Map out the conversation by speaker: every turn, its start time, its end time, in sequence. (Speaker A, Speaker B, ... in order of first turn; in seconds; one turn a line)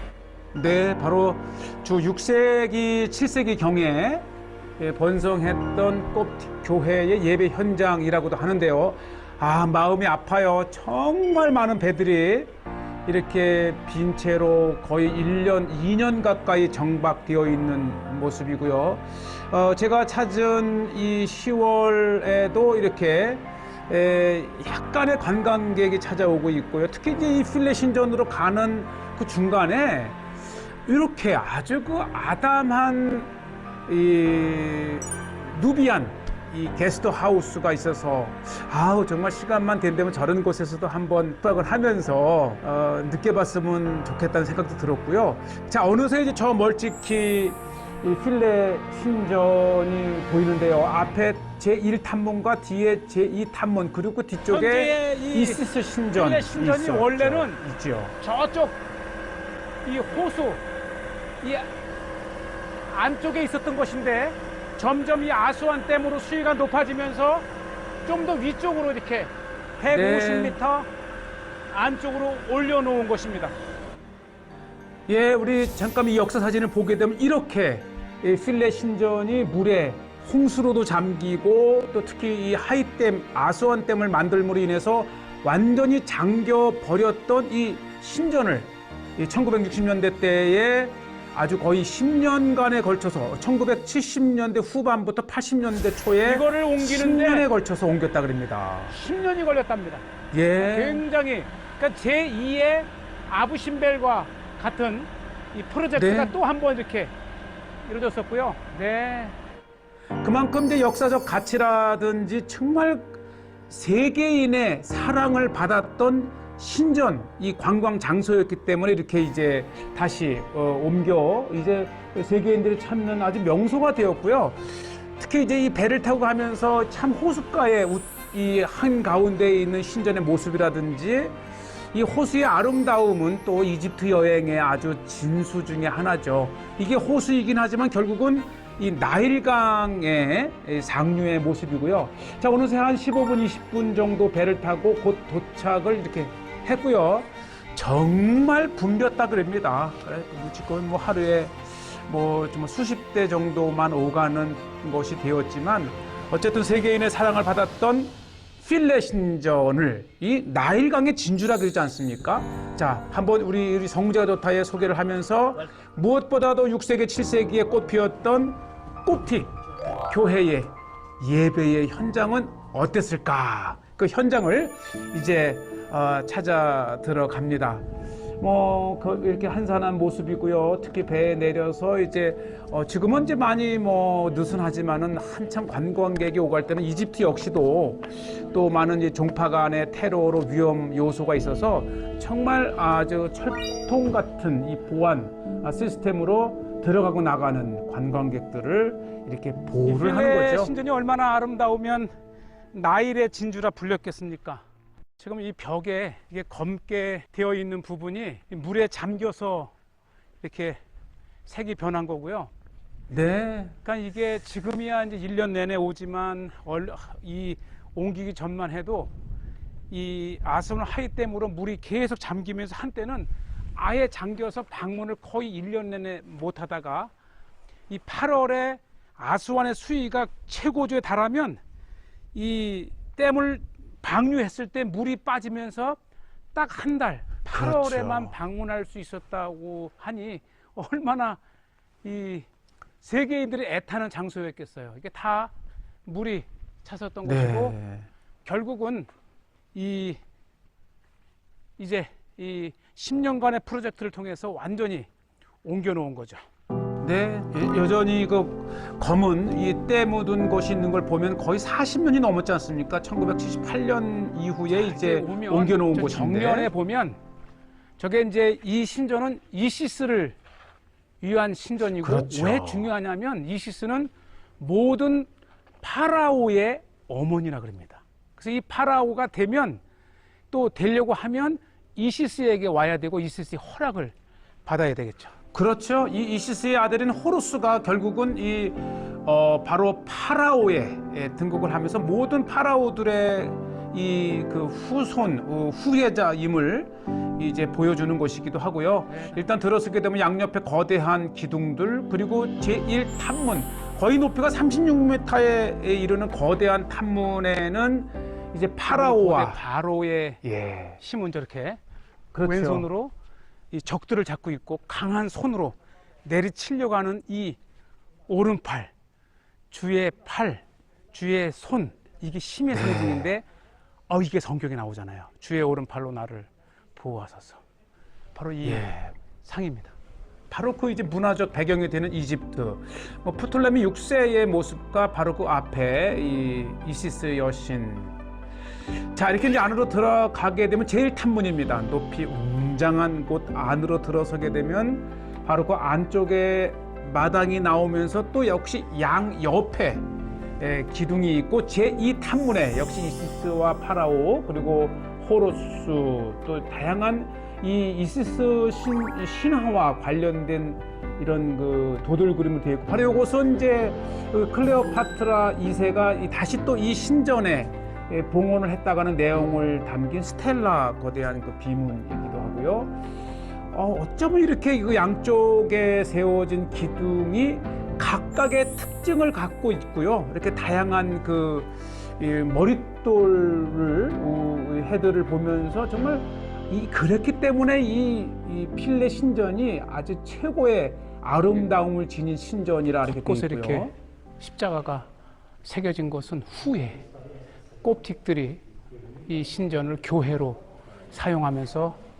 Speaker A: 0.5-12.5
Speaker A: 13.1-30.2
Speaker A: 30.9-33.3
Speaker A: 33.9-58.2
Speaker B: 54.5-57.6
Speaker B: 58.2-58.8
Speaker B: 59.8-60.6
Speaker B: 61.4-61.7
Speaker B: 62.9-67.5
Speaker B: 68.0-70.9
Speaker A: 69.9-70.6
Speaker B: 71.7-73.5
Speaker A: 75.1-99.0
Speaker B: 96.2-97.5
Speaker B: 98.9-100.0
Speaker A: 100.3-101.0
Speaker B: 100.6-107.1
Speaker A: 106.0-106.3
Speaker B: 107.8-109.4
Speaker A: 110.2-131.4
Speaker A: 131.9-177.9
Speaker A: 178.4-200.7
Speaker B: 199.8-202.1
Speaker B: 202.7-204.6
Speaker B: 205.2-209.7
Speaker B: 210.4-210.8
Speaker B: 211.4-212.5
Speaker A: 213.1-213.8
Speaker B: 213.8-219.1
Speaker B: 219.9-227.1
Speaker B: 227.9-231.6
Speaker B: 232.3-236.0
Speaker B: 236.5-241.4
Speaker A: 237.5-238.4
Speaker B: 242.0-242.4
Speaker B: 243.0-245.5
Speaker B: 246.1-247.8
Speaker A: 247.2-248.1
Speaker B: 248.4-249.1
Speaker B: 249.7-250.2
Speaker B: 251.8-255.1
Speaker B: 255.6-256.4
Speaker A: 257.0-266.7
Speaker B: 264.7-267.2
Speaker B: 268.0-270.4
Speaker B: 271.2-275.3
Speaker A: 272.0-272.9
Speaker B: 275.8-279.8
Speaker B: 280.5-284.1
Speaker B: 284.6-285.4
Speaker A: 285.5-309.6
Speaker B: 299.1-299.4
Speaker B: 308.9-310.4
Speaker A: 310.4-311.0
Speaker B: 311.0-311.8
Speaker A: 312.3-312.9
Speaker B: 312.4-313.1
Speaker B: 313.7-317.6
Speaker B: 318.3-318.9
Speaker B: 319.7-323.4
Speaker A: 322.7-323.3
Speaker B: 324.1-327.6
Speaker B: 328.3-329.9
Speaker A: 328.6-329.0
Speaker A: 330.5-338.1
Speaker A: 338.9-350.1
Speaker A: 350.6-372.9
Speaker A: 373.7-393.9
Speaker B: 393.1-395.1
Speaker B: 395.6-397.0
Speaker B: 397.8-398.6
Speaker B: 399.3-402.0